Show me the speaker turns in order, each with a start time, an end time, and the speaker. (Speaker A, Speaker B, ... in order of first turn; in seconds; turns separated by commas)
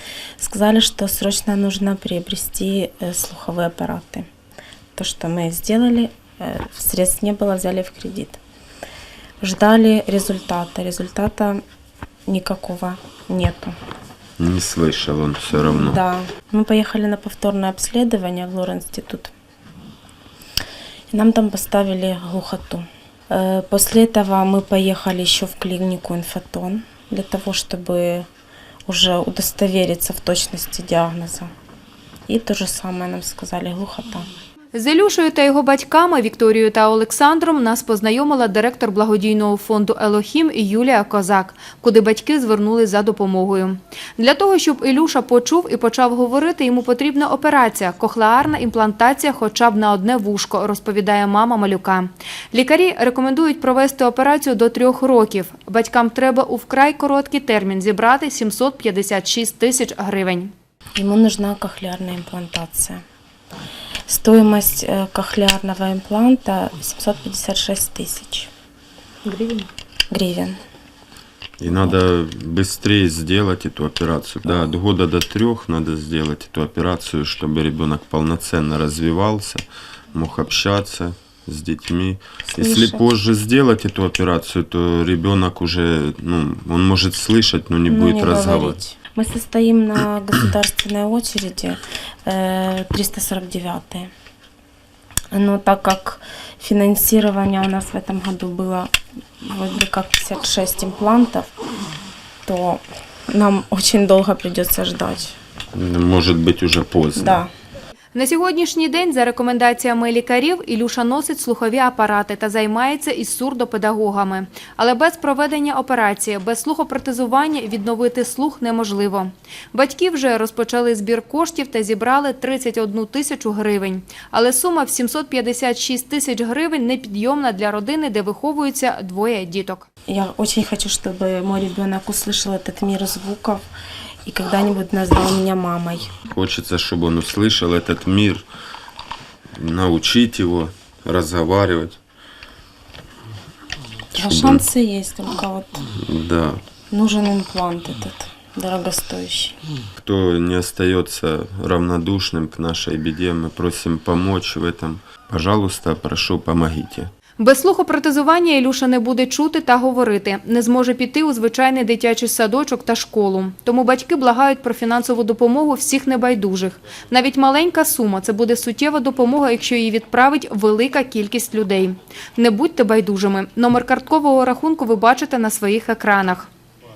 Speaker A: 0.4-4.3, Speaker A: 5.0-8.4, Speaker A: 9.4-11.6, Speaker A: 12.3-13.8, Speaker B: 14.4-16.0, Speaker A: 15.5-19.3, Speaker A: 21.1-28.3, Speaker A: 28.9-31.5, Speaker A: 32.3-34.3, Speaker C: 34.7-60.5, Speaker A: 61.0-63.0, Speaker A: 64.1-68.5, Speaker C: 69.2-69.7, Speaker A: 70.1-70.6, Speaker B: 71.6-79.6, Speaker B: 80.1-88.8, Speaker A: 82.5-83.1, Speaker A: 87.9-94.1, Speaker A: 95.3-101.5, Speaker A: 102.5-105.4, Speaker B: 105.8-107.5, Speaker A: 107.2-107.5, Speaker C: 108.1-129.9, Speaker A: 130.1-133.6, Speaker A: 134.2-136.1, Speaker B: 136.3-138.4, Speaker B: 139.6-142.0, Speaker A: 144.1-145.9, Speaker B: 144.2-144.7, Speaker B: 146.0-146.6, Speaker A: 146.9-149.6, Speaker B: 150.0-157.1, Speaker C: 157.4-176.5